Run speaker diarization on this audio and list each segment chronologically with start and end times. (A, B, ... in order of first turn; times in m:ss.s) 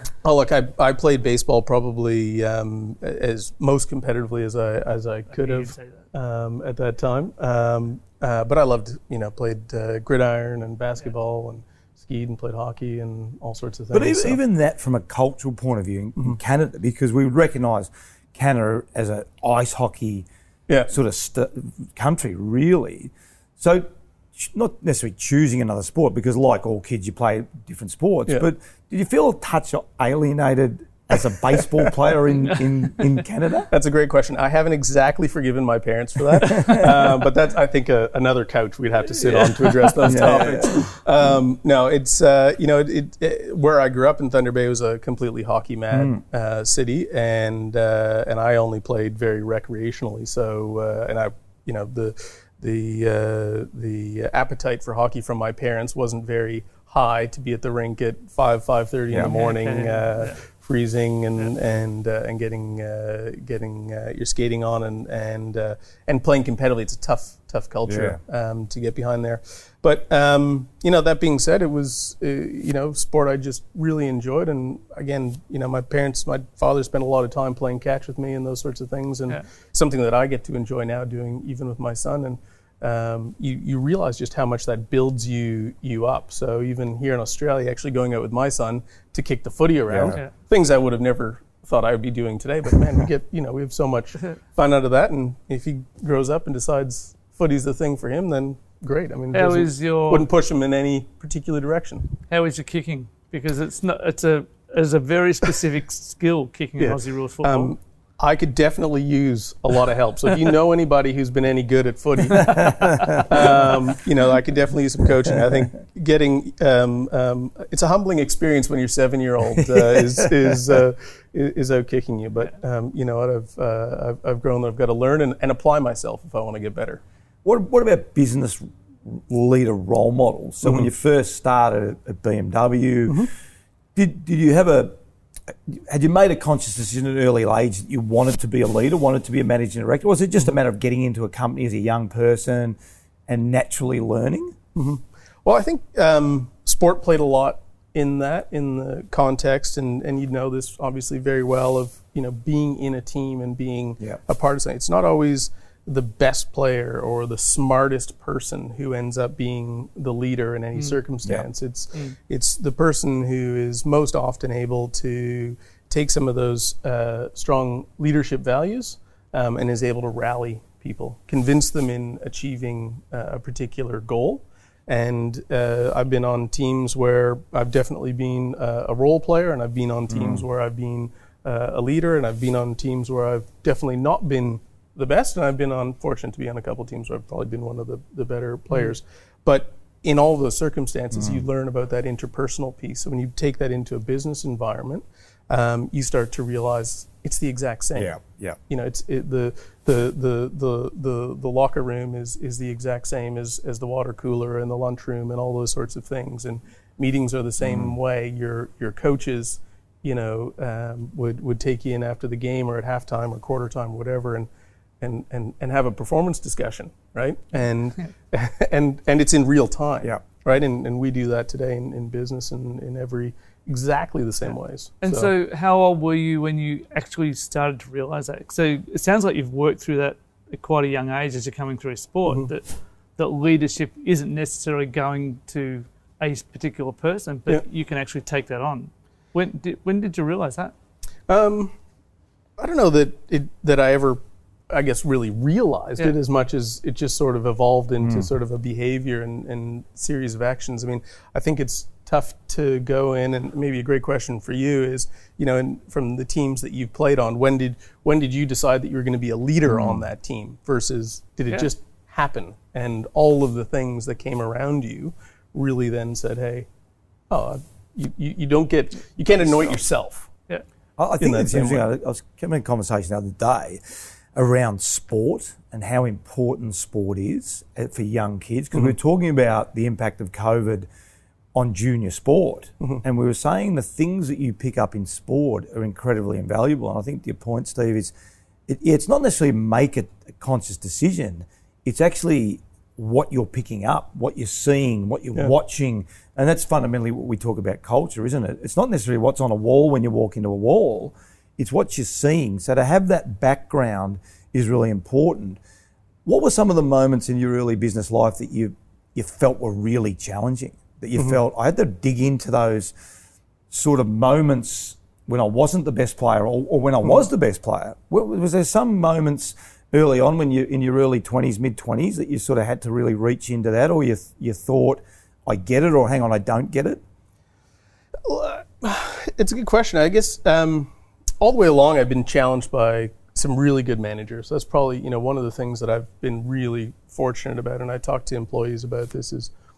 0:00.2-0:14.4 A
0:05.3-0:06.0 B
0:13.9-0:20.3 C
0:20.9-0:33.7 C
0:33.7-1:42.1 A
0:36.4-0:36.9 C
0:39.2-0:40.5 B
0:40.0-0:40.9 C
0:45.9-0:46.2 C
0:59.2-1:00.4 B
1:07.9-1:08.2 C
1:29.9-1:30.2 C
1:39.3-1:40.3 B
1:42.3-1:47.7 B
1:46.8-2:07.0 A
1:52.3-1:53.2 C
1:59.8-2:00.2 C
2:07.4-2:13.3 C
2:13.9-2:15.0 C
2:15.5-2:24.6 C
2:24.7-3:18.1 A
3:00.1-3:00.4 C
3:11.1-3:11.4 C
3:18.0-3:18.6 C
3:18.7-3:34.5 A
3:27.6-3:27.9 C
3:35.0-3:45.3 A
3:45.0-4:00.7 B
4:01.3-4:01.7 A
4:02.6-4:26.7 A
4:08.0-4:08.3 C
4:19.7-4:20.0 C
4:27.3-4:30.3 A
4:31.0-4:40.9 C
4:31.2-4:31.8 A
4:41.5-4:48.1 C
4:48.7-5:05.6 C
5:06.2-5:12.9 C
5:13.7-5:27.0 C
5:28.2-5:39.5 A